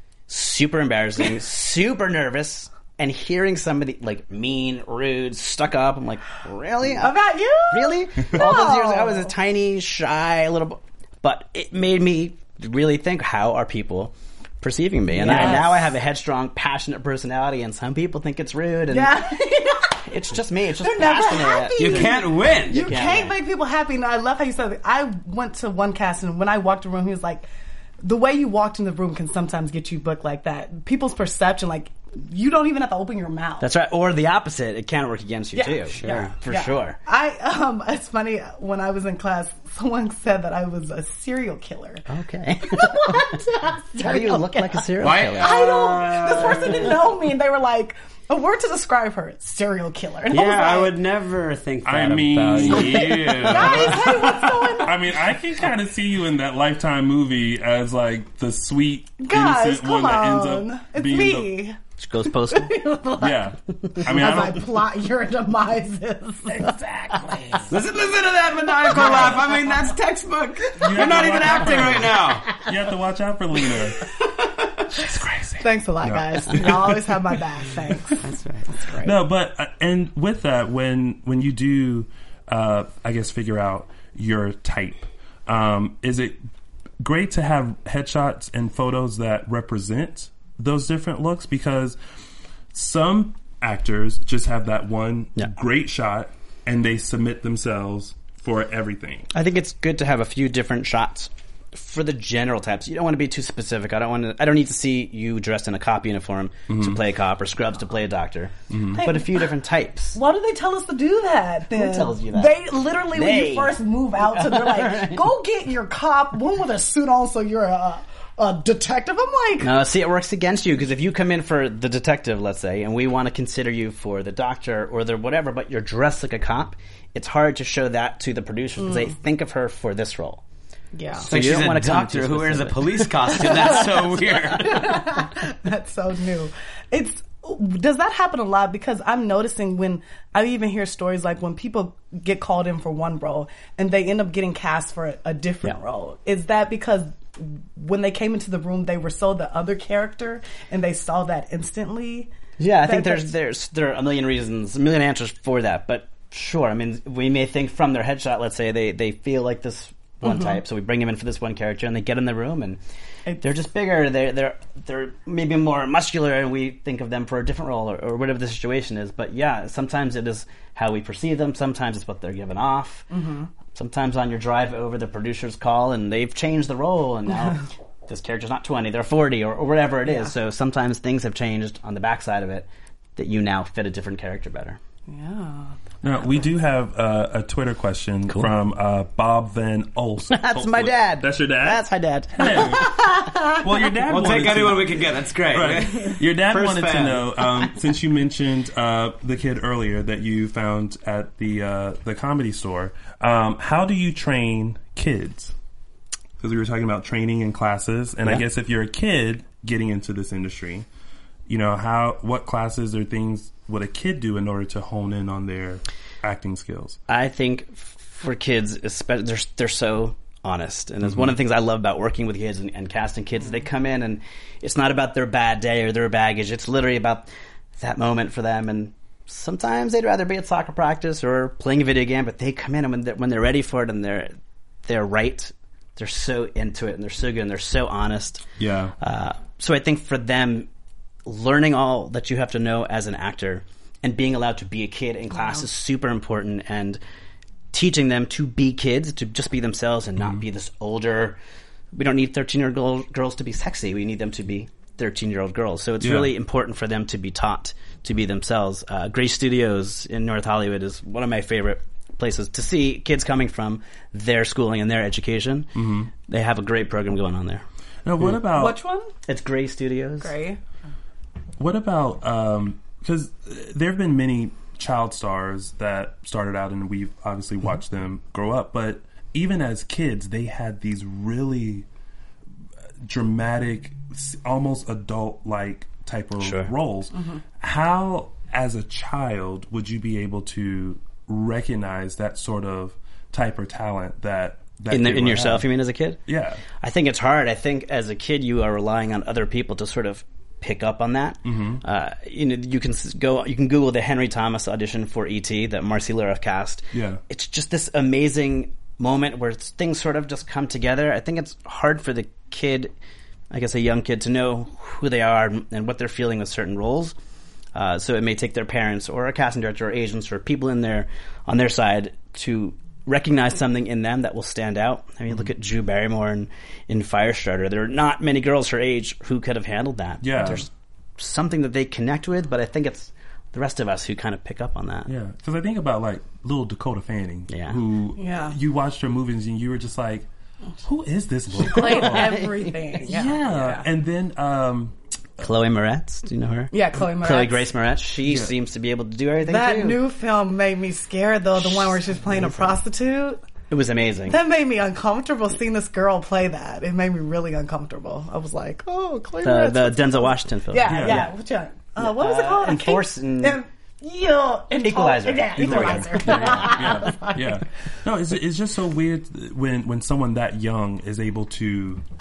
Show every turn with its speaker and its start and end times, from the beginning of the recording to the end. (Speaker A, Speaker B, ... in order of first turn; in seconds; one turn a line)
Speaker A: 0.3-7.2
Speaker B: 7.0-9.3
Speaker A: 7.7-19.2
Speaker B: 15.1-15.9
Speaker C: 15.3-15.6
Speaker B: 18.9-20.1
Speaker A: 20.0-23.3
Speaker B: 20.8-27.4
Speaker D: 21.8-23.0
Speaker B: 28.0-33.7
Speaker A: 33.6-37.0
Speaker B: 35.5-42.0
Speaker D: 35.9-36.3
Speaker A: 42.1-43.3
Speaker B: 42.6-50.9
Speaker A: 44.0-45.6
Speaker D: 45.0-47.0
Speaker D: 50.3-54.2
Speaker C: 51.8-61.5
Speaker B: 53.4-55.1
Speaker B: 59.2-61.8
Speaker A: 62.0-62.7
Speaker B: 62.5-67.7
Speaker C: 63.2-64.8
Speaker D: 67.7-72.6
Speaker B: 68.9-69.7
Speaker C: 70.8-74.0
Speaker B: 71.0-71.3
Speaker C: 74.9-77.3
Speaker B: 75.6-79.2
Speaker D: 78.2-78.7
Speaker C: 79.0-86.4
Speaker C: 87.0-92.0
Speaker C: 92.7-99.3
Speaker A: 99.3-110.2
Speaker C: 106.7-107.0
Speaker C: 108.7-109.0
Speaker B: 108.9-109.4
Speaker B: 110.1-119.7
Speaker A: 111.7-112.5
Speaker A: 113.1-115.3
Speaker A: 119.6-130.4
Speaker B: 128.8-129.1
Speaker B: 130.9-131.3
Speaker A: 131.2-133.6
Speaker D: 131.2-135.0
Speaker B: 133.4-134.1
Speaker B: 134.6-152.3
Speaker A: 152.6-162.8
Speaker B: 152.9-153.3
Speaker B: 160.2-160.6
Speaker A: 163.4-173.1
Speaker B: 173.1-173.5
Speaker A: 173.7-184.8
Speaker B: 180.1-180.3
Speaker B: 185.1-185.7
Speaker C: 186.0-205.5
Speaker A: 190.3-193.0
Speaker B: 192.8-193.5
Speaker D: 194.1-197.3
Speaker C: 206.4-210.8
Speaker C: 211.5-217.0
Speaker A: 217.1-234.3
Speaker C: 221.1-221.3
Speaker A: 234.8-238.4
Speaker C: 238.6-238.9
Speaker A: 239.0-240.7
Speaker A: 241.2-247.0
Speaker A: 247.7-251.4
Speaker A: 251.9-265.7
Speaker C: 256.0-256.3
Speaker C: 265.7-266.1
Speaker A: 266.3-267.6
Speaker C: 268.0-268.8
Speaker B: 268.5-269.1
Speaker A: 269.3-270.3
Speaker B: 270.2-270.6
Speaker C: 271.6-281.9
Speaker C: 283.0-295.7
Speaker A: 286.4-286.7
Speaker A: 294.9-296.2
Speaker C: 296.3-296.6
Speaker A: 296.8-312.9
Speaker C: 301.4-301.8
Speaker C: 306.9-307.2
Speaker A: 313.5-317.1
Speaker A: 317.7-335.1
Speaker C: 330.2-330.6
Speaker C: 335.1-340.3
Speaker A: 337.5-337.8
Speaker B: 338.2-338.6
Speaker C: 340.8-344.9
Speaker B: 341.6-343.8
Speaker A: 345.4-350.0
Speaker B: 346.7-347.7
Speaker C: 348.2-348.5
Speaker B: 349.4-353.4
Speaker A: 351.6-352.8
Speaker A: 353.7-354.4
Speaker B: 354.3-367.4
Speaker A: 359.4-361.3
Speaker C: 360.9-361.3
Speaker A: 362.0-363.6
Speaker A: 364.7-366.8
Speaker C: 365.6-372.0